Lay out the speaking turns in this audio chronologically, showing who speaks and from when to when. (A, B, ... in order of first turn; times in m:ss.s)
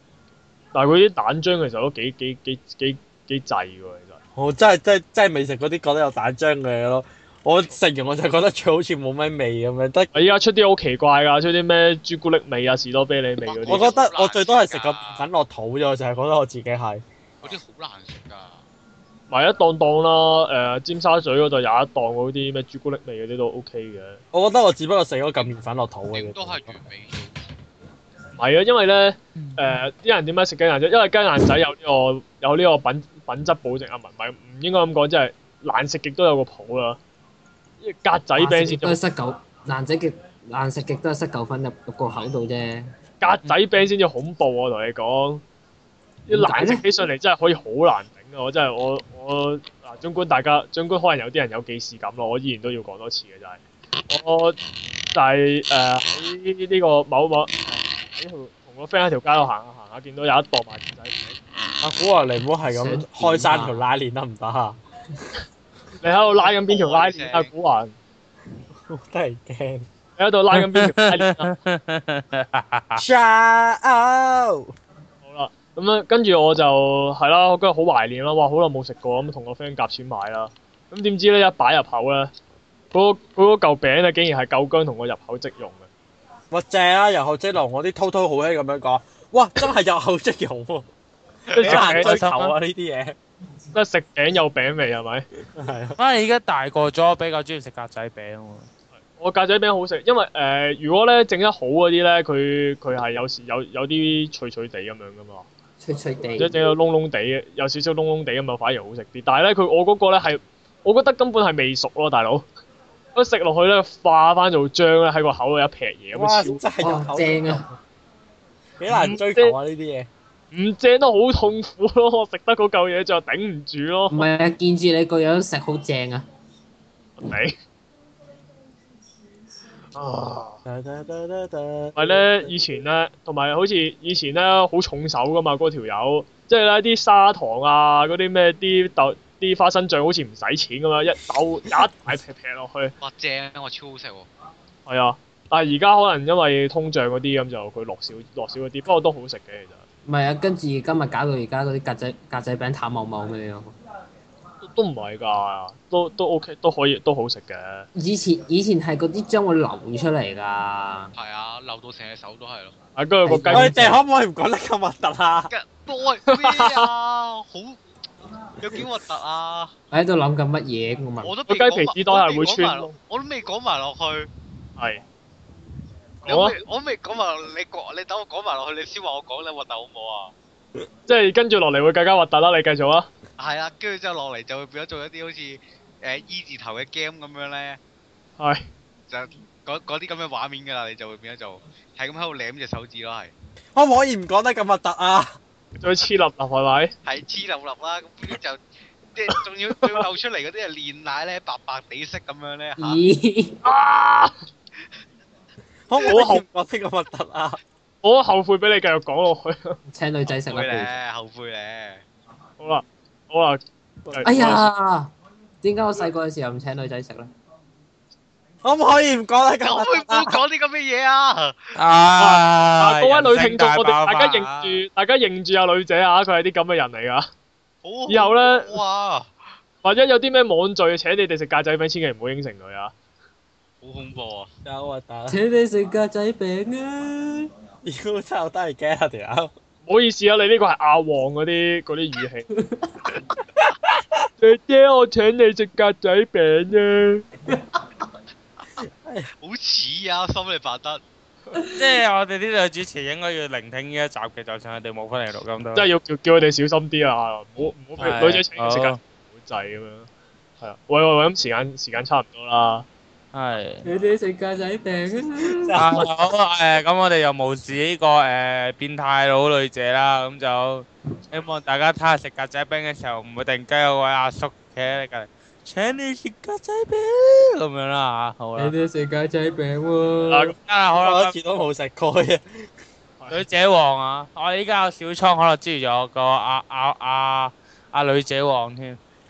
0:00.7-0:04.2 A
0:04.4-0:10.1 B
0:10.1-0:14.0 A
0:13.5-0:15.3 C
0:13.7-0:17.0 B
0:17.4-0:18.6 C
0:19.3-0:24.2 A
0:24.3-0:26.8 B
0:26.1-0:27.5 C
0:28.4-0:37.0 A
0:29.4-0:29.8 D
0:37.8-0:39.0 A
0:38.4-0:42.9 E
0:43.2-0:45.4 A
0:46.3-0:46.8 E
0:46.3-0:54.6 A
0:55.1-1:01.2 A
1:01.8-1:04.8 B
1:02.7-1:03.8 E
1:06.0-1:08.0 A
1:06.3-1:07.5 C
1:08.9-1:09.9 B
1:10.2-1:11.5 A
1:10.6-1:13.0 D
1:13.0-1:14.7 B
1:15.2-1:22.3 A
1:22.9-1:25.9 A
1:26.5-1:30.9 B
1:31.5-1:31.9 C
1:31.5-1:32.5 A
1:31.6-1:33.2 B
1:31.8-1:32.2 D
1:33.7-1:35.3 A
1:35.5-1:36.0 B
1:36.0-1:38.7 D
1:39.1-1:45.5 A
1:45.8-1:46.6 E
1:46.4-1:52.4 A
1:53.1-1:56.6 A
1:56.1-1:57.7 B
1:56.8-1:57.7 E
1:58.8-2:00.1 B
1:58.9-1:59.6 A
2:00.5-2:04.3 A
2:04.1-2:06.3 E
2:07.2-2:07.6 A
2:10.0-2:10.6 A
2:10.6-2:12.4 B
2:12.0-2:22.9 A
2:23.0-2:24.3 C
2:24.9-2:29.8 A
2:30.1-2:33.7 E
2:34.6-2:37.9 A
2:38.0-2:41.1 E
2:41.1-2:42.8 C
2:43.0-2:44.0 A
2:43.3-2:44.0 E
2:43.5-2:45.5 B
2:45.5-2:47.8 C
2:46.3-2:46.9 A
2:48.6-2:49.7 C
2:49.9-2:51.3 E
2:51.2-2:54.3 C
2:51.5-2:53.0 A
2:54.8-2:55.0 A
2:56.3-2:56.6 A
2:56.3-3:00.3 C
3:01.1-3:03.1 A
3:03.4-3:07.8 C
3:08.4-3:08.7 A
3:09.1-3:13.3 C
3:13.7-3:15.4 B
3:15.8-3:16.9 A
3:17.0-3:18.6 C
3:19.1-3:23.0 C
3:22.8-3:23.6 E
3:23.6-3:24.4 A
3:25.9-3:27.6 B
3:26.0-3:26.4 A
3:28.0-3:29.8 A
3:29.9-3:31.0 E
3:30.3-3:32.0 C
3:32.6-3:34.7 A
3:34.2-3:37.3 E
3:38.6-3:40.4 B
3:39.6-3:41.8 C
3:41.7-3:44.5 D
3:42.2-3:47.3 A
3:47.8-3:49.5 C
3:48.1-3:48.8 A
3:49.8-3:52.9 A
3:53.8-3:54.5 C
3:54.6-3:55.4 B
3:55.3-3:57.5 E
3:57.8-3:59.5 B
3:59.8-4:02.5 A
4:03.6-4:04.0 B
4:04.4-4:07.3 A
4:08.9-4:09.3 B
4:09.4-4:11.0 C
4:11.6-4:11.9 E
4:11.8-4:15.9 D
4:15.7-4:20.1 A
4:18.0-4:18.4 C
4:18.6-4:19.0 D
4:20.6-4:22.9 A
4:23.3-4:23.9 D
4:23.8-4:26.0 E
4:25.5-4:26.1 B
4:25.7-4:38.7 D
4:38.6-4:40.5 E
4:40.3-4:40.5 A
4:40.5-4:41.4 D
4:41.0-4:42.7 B
4:43.3-4:49.0 D